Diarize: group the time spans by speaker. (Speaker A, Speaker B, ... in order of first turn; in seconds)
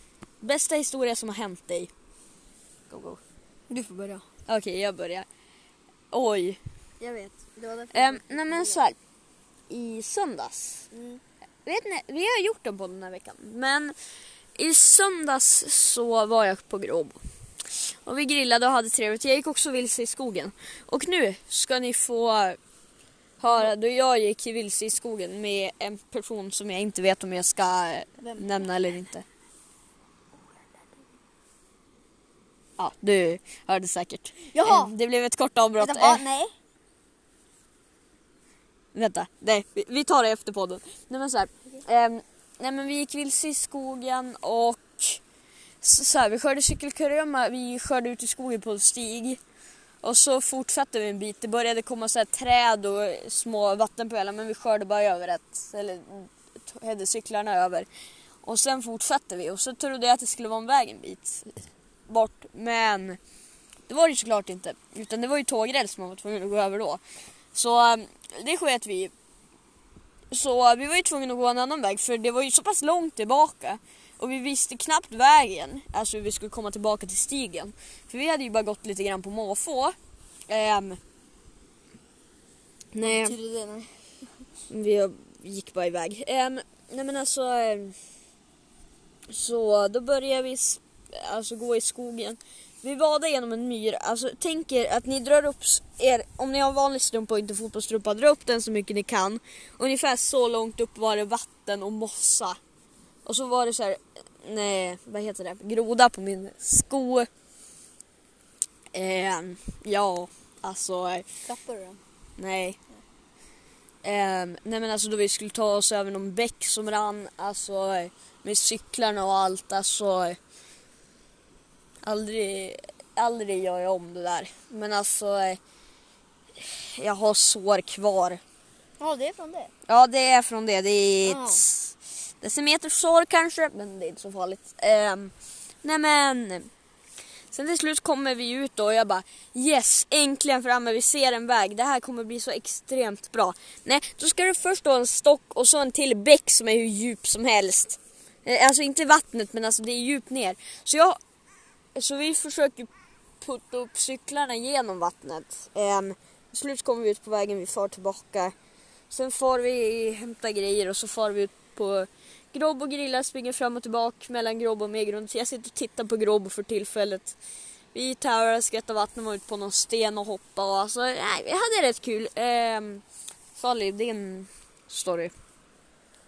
Speaker A: 0.4-1.9, 2.9-3.2, 4.5-5.2, 6.1-6.6, 7.9-8.9, 9.7-10.9, 11.6-13.9, 14.6-17.2, 17.7-22.6, 23.4-29.2, 32.8-36.2, 38.9-45.2, 45.8-49.4, 50.0-57.9, 58.4-63.2, 63.9-67.0, 67.5-69.1, 70.3-79.9, 80.5-81.0, 82.9-83.3, 84.7-87.9, 89.3-102.6, 103.2-107.3, 108.9-111.2, 112.4-112.8, 114.0-120.4, 122.0-125.6, 126.6-128.4, 129.9-136.7, 137.5-151.2, 151.9-152.9, 153.4-158.5, 159.1-167.3, 167.9-173.0, 173.5-175.3
Speaker B: 3.7-4.2, 7.0-8.8, 10.9-11.2, 28.2-28.6, 34.5-34.9, 35.8-36.5, 83.0-83.9, 111.4-112.0, 129.0-129.7, 131.2-131.6